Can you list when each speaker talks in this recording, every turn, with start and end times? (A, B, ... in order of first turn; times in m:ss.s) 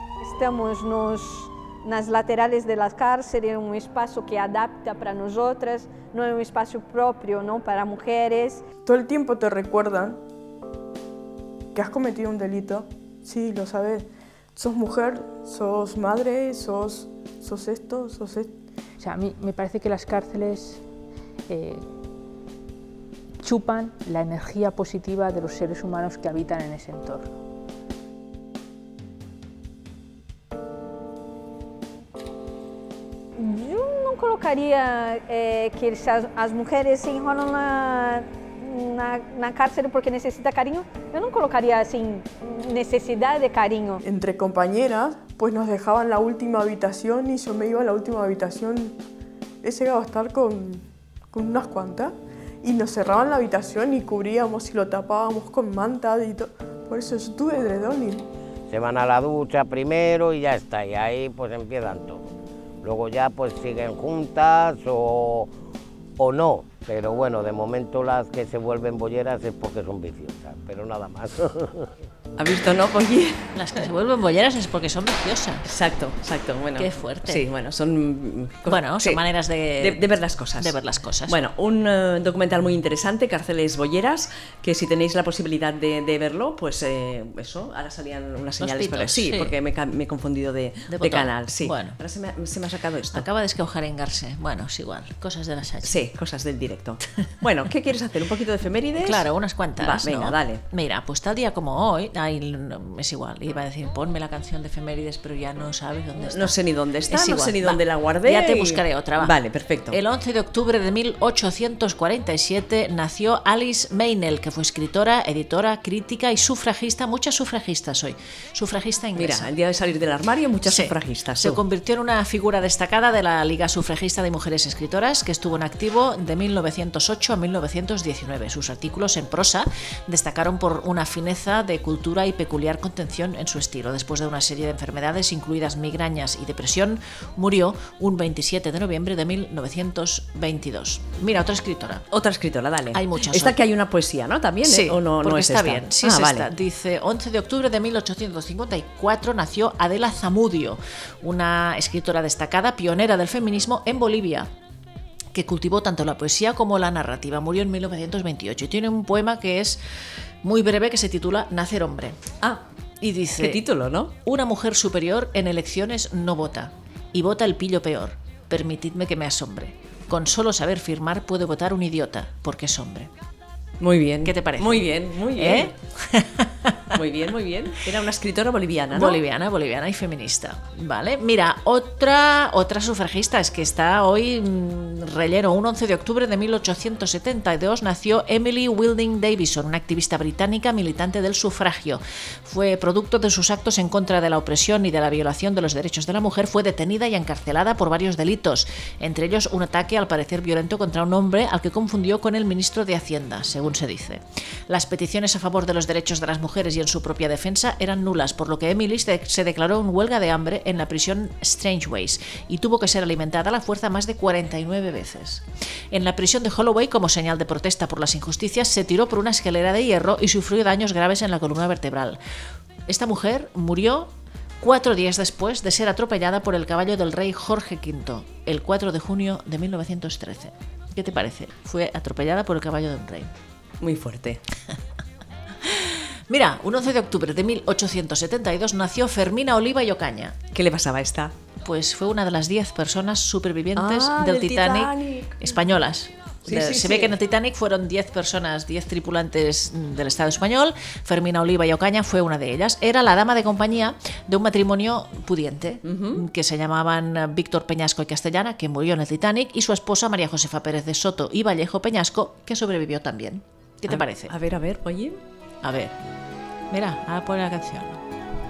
0:00.2-0:08.6 A
0:08.8-0:10.2 B
0:11.7-0:18.6 B
0:19.0-0:20.8 C
0:21.5-0:21.9 C
0:23.4-0:27.3 C
0:33.4-0:44.0 A
0:44.0-0:49.0 B
0:49.6-0:58.3 B
0:58.7-1:02.3 D
1:02.8-1:05.5 D
1:06.2-1:11.9 D
1:12.4-1:13.4 E
1:13.5-1:15.6 F
1:15.6-1:19.2 E
1:16.8-1:17.4 F
1:18.7-1:20.0 F
1:19.8-1:20.8 E
1:20.6-1:21.4 F
1:21.3-1:33.3 E
1:28.6-1:29.6 F
1:30.9-1:32.0 F
1:33.1-1:36.0 F
1:35.8-1:39.2 E
1:39.0-1:46.6 F
1:39.8-1:40.6 E
1:46.2-1:50.0 E
1:47.1-1:49.3 F
1:49.9-1:59.5 F
1:59.2-2:01.6 E
2:00.6-2:22.0 F
2:22.1-2:26.5 E
2:22.9-2:23.6 F
2:24.6-2:34.5 F
2:35.3-2:39.8 F
2:40.4-2:42.2 F
2:43.0-2:43.6 F
2:43.4-2:44.1 E
2:44.2-2:53.1 F
2:53.8-2:55.7 E
2:54.2-2:56.9 F
2:56.9-2:59.2 E
2:58.9-3:42.2 F
3:42.9-3:53.3 F
3:53.8-3:54.4 E
3:55.6-4:00.4 F
4:00.5-4:01.3 E
4:01.6-4:24.3 F
4:03.8-4:05.6 E
4:06.4-4:07.2 E
4:15.8-4:16.2 E
4:23.9-4:25.2 E
4:25.6-4:26.0 F
4:26.7-4:28.0 F